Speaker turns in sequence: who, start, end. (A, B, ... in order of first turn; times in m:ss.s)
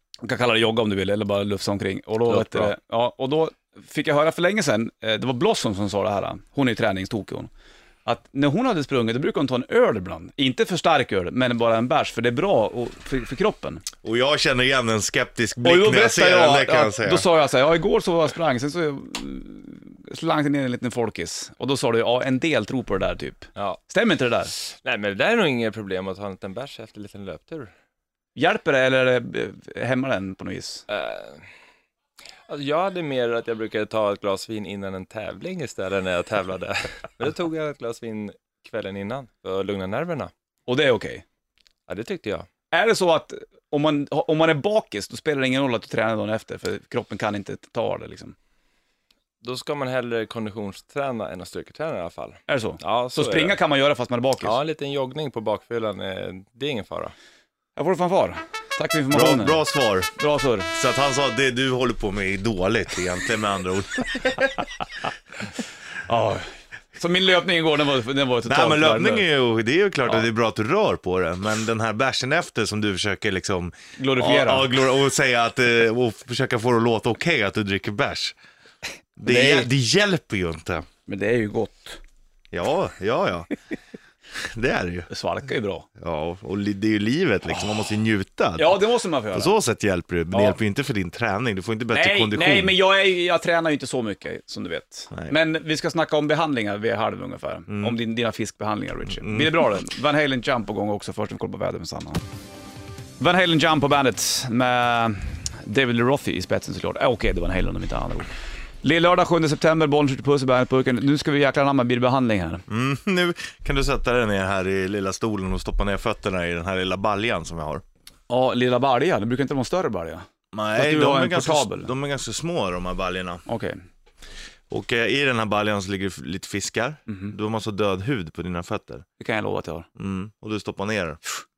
0:00.2-0:07.5 A
0:08.0-0:13.8 A
0:14.0-0:17.3 B
0:15.6-0:24.5 A
0:24.6-0:27.7 C
0:28.4-0:30.8 A
0:30.9-0:31.4 C
0:32.5-0:40.3 C
0:40.7-0:41.2 A
0:41.9-0:42.5 C
0:42.7-0:48.4 A
0:49.4-0:53.6 C
0:52.5-0:54.6 A
0:54.4-0:57.1 C
0:57.8-0:59.6 A
0:59.1-1:00.1 B
1:00.2-1:00.7 A
1:00.7-1:04.7 B
1:06.0-1:09.2 A
1:08.4-1:18.4 B
1:14.0-1:14.7 A
1:19.2-1:20.8 B
1:19.2-1:19.7 A
1:21.0-1:22.0 A
1:22.5-1:23.5 B
1:24.3-1:25.1 B
1:25.1-1:25.9 A
1:26.0-1:28.8 B
1:28.6-1:29.5 A
1:29.3-1:32.7 B
1:30.3-1:30.6 A
1:31.9-1:42.2 A
1:37.7-1:38.0 B
1:39.1-1:39.5 B
1:43.2-1:48.3 A
1:48.8-1:52.6 A
1:52.7-1:57.8 B
1:58.3-2:00.2 A
2:00.5-2:03.4 B
2:00.8-2:01.9 A
2:03.5-2:03.8 A
2:04.7-2:09.0 B
2:07.1-2:07.3 A
2:09.2-2:09.9 A
2:10.0-2:11.2 B